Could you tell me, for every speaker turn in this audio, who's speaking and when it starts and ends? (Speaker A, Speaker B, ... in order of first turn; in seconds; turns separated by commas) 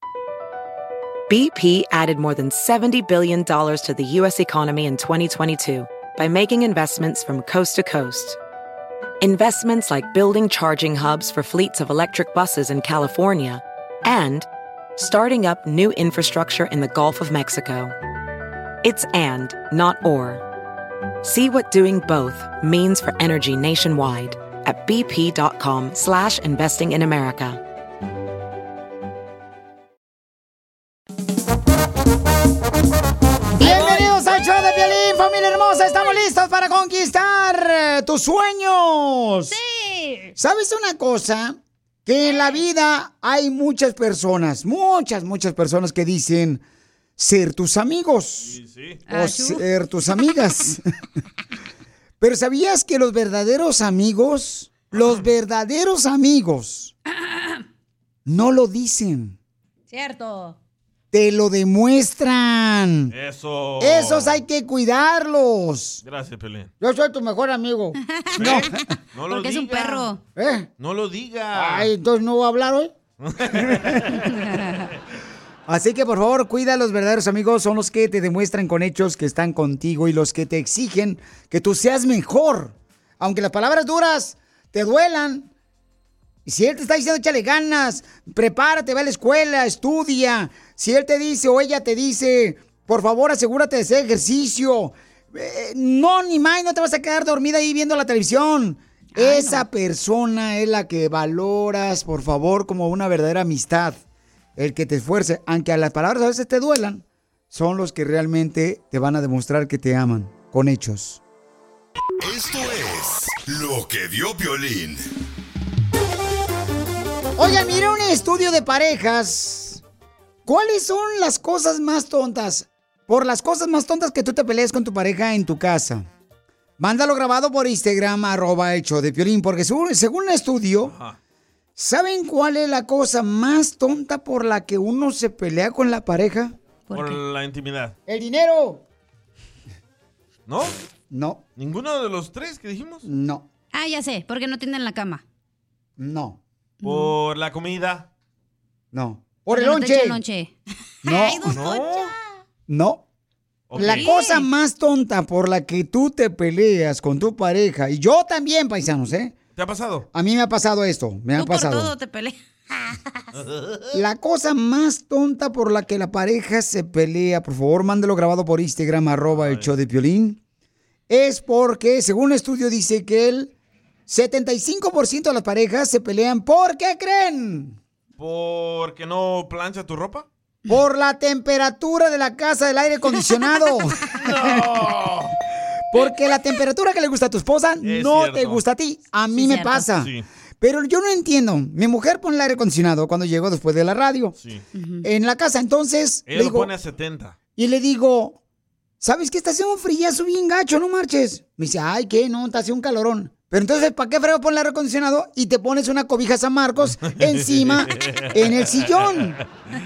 Speaker A: 1.3-8.4, Speaker A: 9.2-17.9, Speaker A: 18.8-20.4, Speaker A: 21.2-27.6, Speaker B: 33.6-35.0, Speaker C: 33.6-39.6, Speaker B: 35.9-36.2, Speaker B: 39.5-40.3, Speaker C: 40.4-46.6, Speaker B: 42.2-42.6, Speaker C: 47.2-48.6, Speaker D: 48.4-49.0, Speaker B: 49.1-49.6, Speaker C: 49.1-50.8, Speaker C: 52.2-56.9, Speaker D: 54.9-55.2, Speaker B: 57.2-57.6, Speaker C: 58.3-59.4, Speaker B: 59.9-60.6, Speaker C: 61.1-63.1, Speaker D: 63.1-64.4, Speaker C: 63.8-66.0, Speaker D: 66.0-66.7, Speaker C: 66.8-68.8, Speaker B: 68.1-68.6, Speaker D: 68.3-70.2, Speaker B: 69.3-70.2, Speaker C: 70.4-70.7, Speaker D: 70.8-71.9, Speaker C: 71.5-72.9, Speaker D: 73.2-74.9, Speaker C: 73.6-74.1, Speaker B: 74.2-74.9, Speaker C: 75.7-85.5, Speaker C: 86.5-104.0, Speaker B: 99.2-99.7, Speaker C: 104.6-111.2, Speaker E: 112.2-115.0, Speaker C: 117.4-119.8, Speaker C: 120.5-126.1, Speaker C: 126.8-130.9, Speaker D: 130.8-131.2, Speaker C: 131.8-136.5, Speaker B: 136.9-137.2, Speaker D: 136.9-138.0, Speaker C: 138.1-138.8, Speaker D: 140.5-140.7, Speaker C: 141.1-141.4, Speaker D: 141.6-143.1, Speaker C: 143.1-143.4, Speaker B: 143.7-145.2, Speaker C: 146.0-146.4, Speaker D: 146.8-148.1, Speaker B: 146.8-147.1, Speaker C: 148.9-150.2, Speaker B: 149.5-152.2, Speaker C: 151.0-151.6, Speaker D: 151.5-152.1, Speaker C: 152.7-153.0, Speaker D: 153.7-154.1, Speaker C: 153.8-159.3, Speaker B: 153.8-154.5, Speaker D: 159.6-160.1, Speaker C: 160.1-161.9, Speaker B: 161.4-163.3, Speaker D: 163.3-163.9, Speaker C: 163.9-170.4, Speaker D: 169.3-169.7, Speaker C: 171.1-173.5, Speaker C: 174.1-177.8, Speaker D: 178.2-180.3, Speaker C: 180.7-184.7, Speaker D: 184.1-185.3, Speaker C: 185.9-190.1, Speaker D: 187.8-188.6, Speaker B: 189.3-189.9, Speaker D: 190.0-190.3, Speaker C: 190.6-194.3, Speaker D: 194.4-194.7, Speaker B: 194.8-195.1, Speaker C: 195.0-196.7, Speaker D: 196.3-197.4, Speaker C: 197.6-198.4, Speaker C: 199.0-209.4, Speaker D: 206.8-209.4